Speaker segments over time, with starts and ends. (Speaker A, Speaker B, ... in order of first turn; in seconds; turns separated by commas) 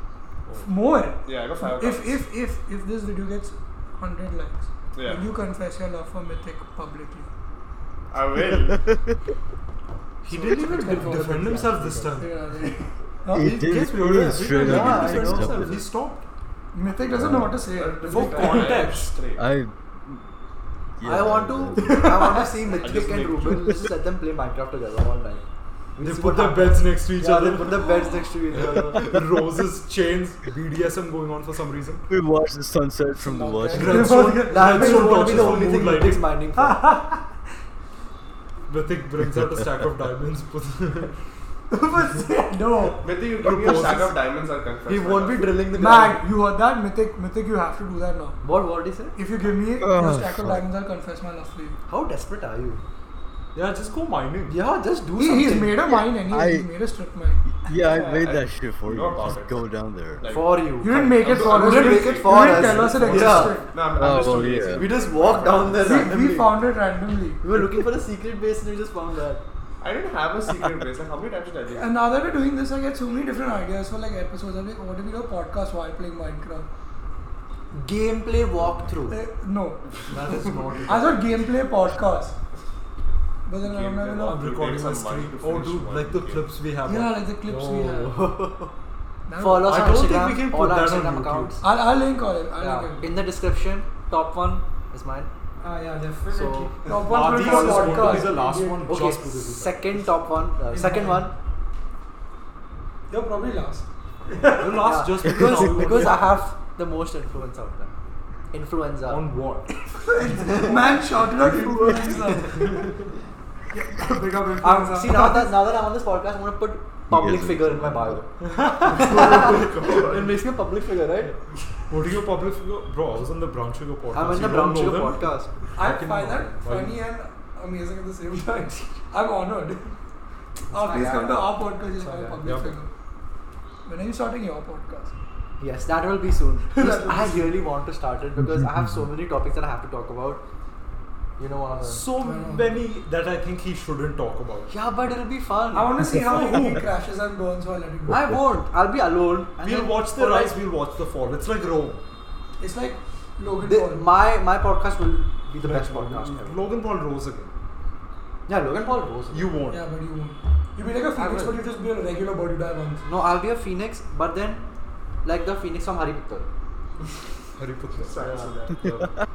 Speaker A: 0.6-7.3, Speaker B: 1.2-2.2, Speaker B: 5.0-5.3, Speaker B: 8.1-8.8, Speaker C: 10.3-12.4, Speaker D: 10.3-12.2, Speaker A: 10.3-11.5, Speaker A: 12.2-13.6, Speaker E: 13.3-15.8, Speaker C: 13.3-16.3, Speaker D: 14.3-15.7, Speaker A: 16.7-18.7, Speaker E: 17.1-17.6, Speaker B: 17.7-19.4, Speaker C: 18.1-19.2, Speaker E: 19.4-20.3, Speaker E: 21.0-22.2, Speaker D: 21.0-25.4, Speaker A: 21.8-22.7, Speaker B: 22.7-23.8, Speaker D: 26.0-29.2, Speaker C: 26.0-28.0, Speaker C: 28.5-32.1, Speaker E: 32.1-34.3, Speaker A: 33.2-35.5, Speaker C: 33.7-36.2, Speaker D: 34.0-36.9, Speaker A: 36.6-37.3, Speaker C: 38.7-41.2, Speaker A: 41.7-43.1, Speaker B: 43.0-45.6, Speaker C: 43.4-44.2, Speaker D: 44.9-46.2, Speaker A: 45.7-48.4, Speaker D: 48.4-49.1, Speaker A: 49.1-51.8, Speaker E: 49.8-50.6, Speaker D: 51.9-52.8, Speaker C: 53.5-54.6, Speaker D: 54.5-55.9, Speaker A: 55.2-57.5, Speaker E: 55.9-56.7, Speaker E: 57.5-60.3, Speaker B: 57.8-59.7, Speaker B: 60.2-60.7, Speaker D: 60.3-66.6, Speaker A: 60.8-63.7, Speaker B: 61.2-66.1, Speaker C: 62.9-63.5, Speaker E: 64.0-64.9, Speaker A: 65.8-67.4, Speaker D: 67.4-69.4, Speaker B: 69.8-71.9, Speaker A: 71.7-76.7, Speaker D: 77.7-79.2, Speaker A: 79.1-80.0, Speaker C: 80.1-81.3, Speaker A: 80.9-82.4, Speaker A: 83.5-84.5, Speaker B: 83.6-86.4, Speaker C: 84.2-87.3, Speaker A: 86.9-88.2, Speaker D: 87.5-88.7, Speaker A: 89.3-90.1, Speaker D: 89.4-91.6, Speaker C: 89.6-91.6, Speaker A: 91.6-93.2, Speaker D: 92.6-95.3, Speaker A: 95.6-98.9, Speaker D: 96.2-101.3, Speaker C: 96.9-100.1, Speaker A: 100.7-101.3, Speaker A: 103.1-104.8, Speaker C: 104.6-106.4, Speaker D: 104.8-107.9, Speaker D: 108.5-109.2, Speaker C: 109.1-109.9, Speaker A: 109.9-112.7, Speaker D: 110.3-111.0, Speaker D: 112.2-112.7, Speaker C: 112.7-112.9, Speaker A: 113.7-115.5, Speaker D: 114.6-121.3, Speaker E: 117.1-118.2, Speaker C: 118.4-119.6, Speaker B: 118.9-120.4, Speaker C: 121.9-127.0, Speaker D: 124.1-125.5, Speaker A: 125.8-130.0, Speaker A: 130.7-132.9, Speaker B: 130.7-131.5, Speaker D: 130.9-131.2, Speaker D: 132.0-132.5, Speaker C: 132.4-132.8, Speaker A: 133.9-135.2, Speaker D: 135.6-140.4, Speaker A: 136.7-137.5, Speaker D: 141.4-142.0, Speaker C: 141.8-144.7, Speaker A: 142.2-142.8, Speaker D: 144.7-146.4, Speaker A: 145.7-148.3, Speaker C: 146.1-146.8, Speaker D: 148.1-150.6, Speaker C: 149.6-152.0, Speaker A: 152.6-154.1, Speaker D: 153.6-156.7, Speaker C: 155.6-157.5, Speaker D: 158.5-159.6, Speaker C: 159.3-159.8, Speaker A: 159.7-163.1, Speaker D: 161.2-161.6, Speaker D: 163.1-164.6, Speaker D: 165.2-166.5, Speaker C: 167.6-169.1, Speaker B: 168.0-169.0, Speaker D: 168.2-168.5